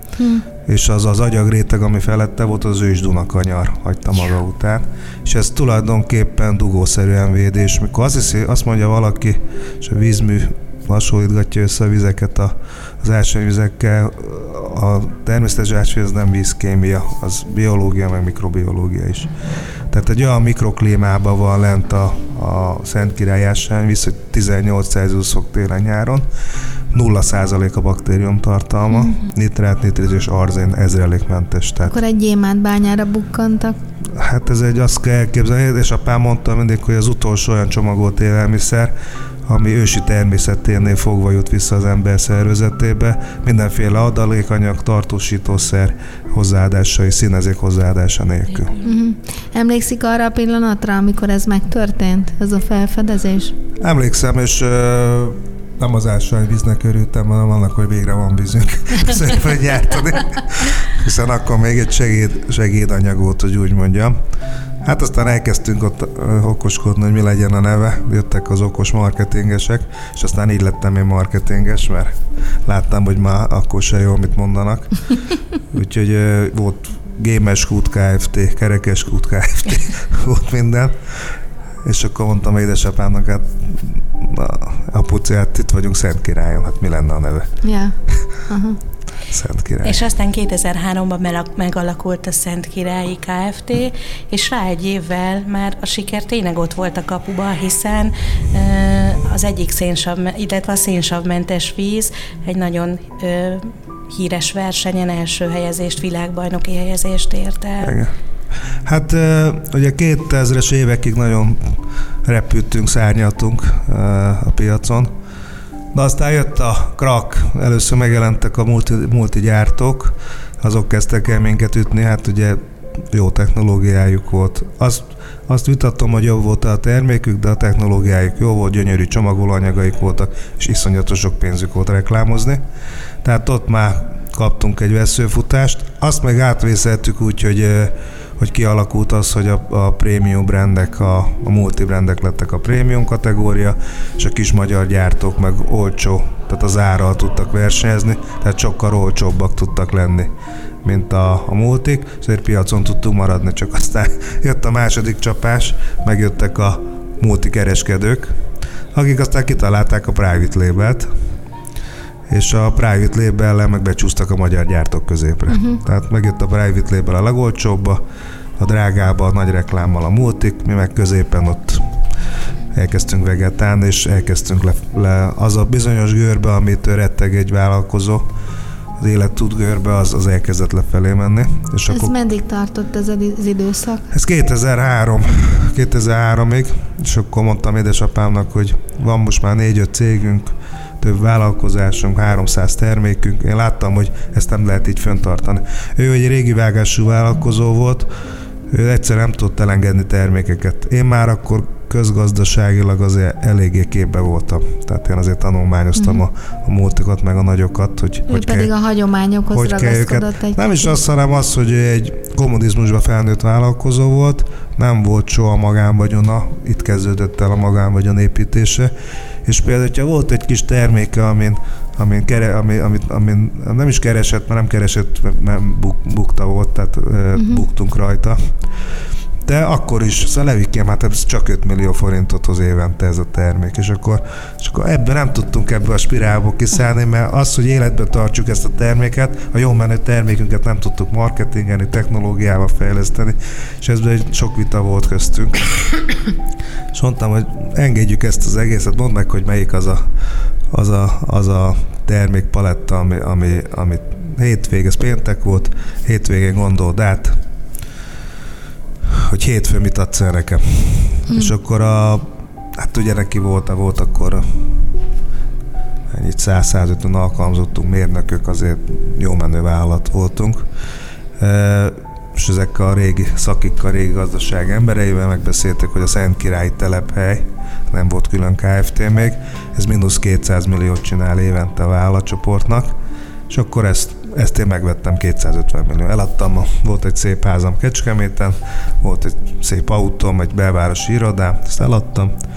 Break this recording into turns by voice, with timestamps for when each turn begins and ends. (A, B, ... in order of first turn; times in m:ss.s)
0:00.2-0:00.4 A
0:00.6-0:19.3 B
0:19.9-0:26.3 B
0:26.9-0:32.0 B
0:31.8-0:33.8 A
0:34.1-0:38.9 B
0:39.5-0:48.8 B
0:48.8-0:53.6 A
0:53.8-1:04.2 B
1:04.8-1:12.1 B
1:12.6-1:14.9 B
1:15.7-1:21.0 B
1:21.8-1:27.5 B
1:27.6-1:27.9 A
1:28.5-1:28.8 A
1:29.3-1:30.0 B
1:29.8-1:47.9 C
1:47.8-1:48.1 B
1:48.8-1:55.1 B
1:55.9-2:12.6 B
2:13.2-2:30.3 B
2:30.8-2:38.3 B
2:38.9-2:41.1 B
2:42.3-2:48.0 B
2:45.5-2:45.8 A
2:48.6-2:51.9 B
2:52.7-2:58.3 B
2:59.0-3:02.1 B
3:01.9-3:04.1 A
3:04.1-3:18.1 B
3:18.7-3:28.7 B
3:28.3-3:30.9 A
3:29.5-3:38.9 B
3:39.4-3:48.4 B
3:49.4-4:06.0 B
4:06.9-4:10.0 B
4:10.7-4:17.4 B
4:19.1-4:24.4 B
4:26.1-4:30.6 B
4:31.4-4:42.9 B
4:43.5-4:52.3 B